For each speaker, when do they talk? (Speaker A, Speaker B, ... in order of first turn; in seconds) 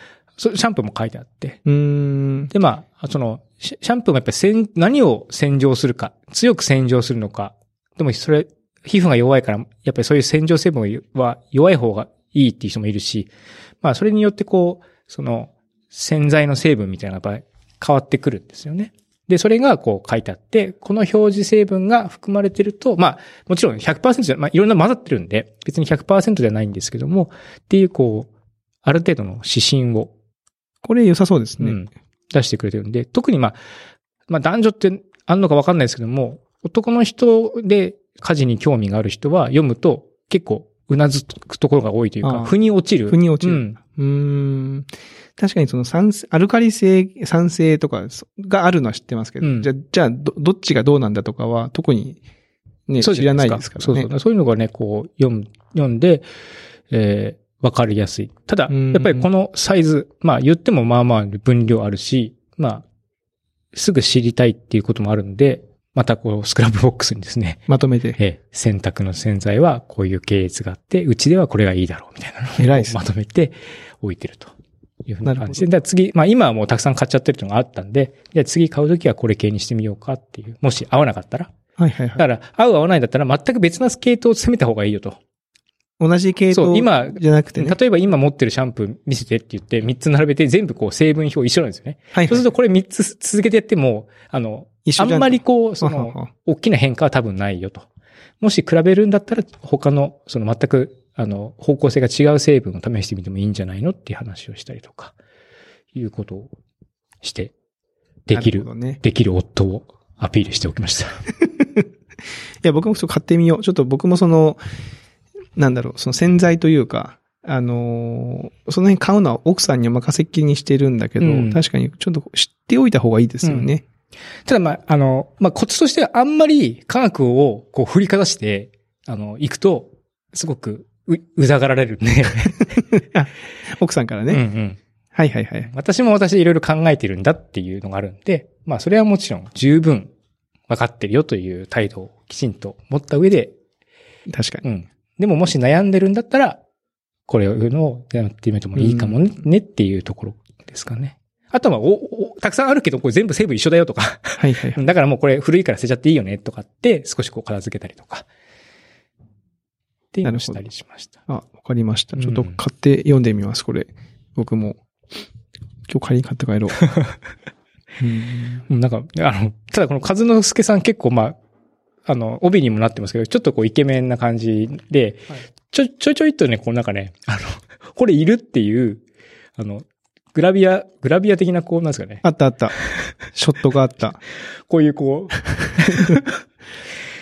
Speaker A: 0.4-1.6, 2.5-13.3, 13.8-28.3, 28.8-30.1, 31.6-33.6, 34.3-43.8, 49.4-49.7, 53.0-56.2, 56.9-62.8, 63.7-67.6, 68.2-74.5, 75.0-81.5, 82.2-85.2, 86.5-97.9, 98.4-105.1, 105.9-106.5, 107.2-107.5, 108.3-111.2, 121.2-121.6, 123.4-123.7, 124.5-132.9, 134.3-134.8, 135.7-140.1, 140.7-143.5, 144.6-146.6, 147.3-158.3, 160.1-161.2, 162.2-162.6, 168.7-171.4, 172.1-179.0, 179.6-182.2, 184.7-186.4
Speaker B: 1.6-2.5, 30.8-31.8, 42.2-42.5, 43.1-52.2, 52.9-54.1, 58.7-59.2, 67.7-68.2, 72.6-73.0, 75.2-75.7, 81.8-82.2, 86.0-87.8, 92.1-92.4, 94.8-96.3, 108.3-109.0, 111.5-111.8, 112.6-114.6, 115.6-123.8, 132.8-134.4, 135.1-135.7, 144.3-144.6, 148.8-149.2, 154.4-154.8, 160.2-160.6, 161.3-164.8, 165.9-166.8, 168.0-168.6, 182.2-182.8, 183.3-184.2, 185.8-186.2